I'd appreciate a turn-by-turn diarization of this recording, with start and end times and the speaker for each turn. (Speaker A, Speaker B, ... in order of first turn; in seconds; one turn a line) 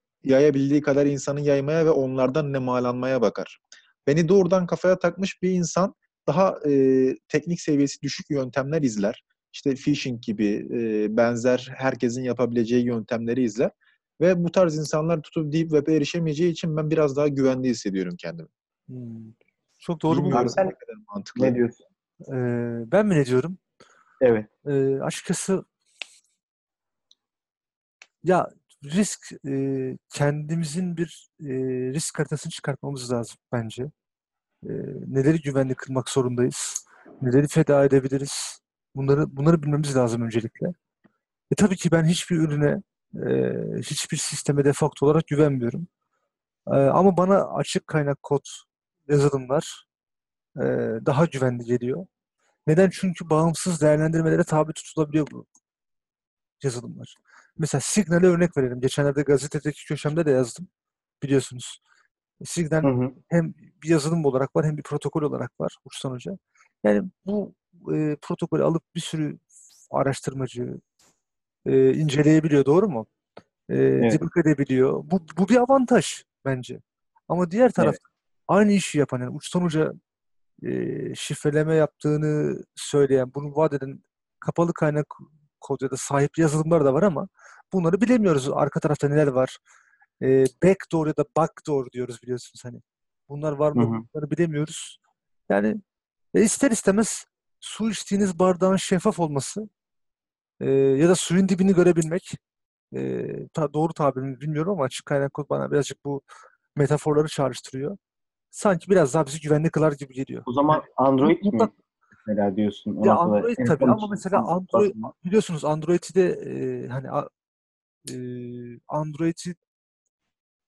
Speaker A: 0.2-18.5
Speaker B: 18.9-20.6
Speaker A: 20.1-21.6
Speaker C: 20.3-20.7
Speaker C: 21.4-21.8
Speaker B: 22.2-23.6
Speaker C: 24.2-24.5
Speaker B: 24.6-25.6
Speaker B: 28.2-33.9
Speaker B: 34.6-40.7
Speaker B: 41.5-45.9
Speaker B: 46.7-49.8
Speaker B: 50.5-52.1
Speaker B: 52.7-55.4
Speaker B: 56.6-60.7
Speaker B: 61.2-61.8
Speaker B: 62.4-69.4
Speaker C: 62.8-63.1
Speaker B: 69.9-70.8
Speaker B: 71.6-73.1
Speaker B: 73.7-79.9
Speaker B: 80.6-89.6
Speaker B: 90.2-95.0
Speaker C: 93.7-94.0
Speaker B: 95.5-95.8
Speaker B: 96.3-99.7
Speaker B: 100.6-102.4
Speaker B: 102.9-106.2
Speaker B: 106.8-108.0
Speaker B: 108.5-111.7
Speaker C: 110.5-111.7
Speaker C: 112.2-115.1
Speaker B: 113.0-117.3
Speaker B: 118.0-119.6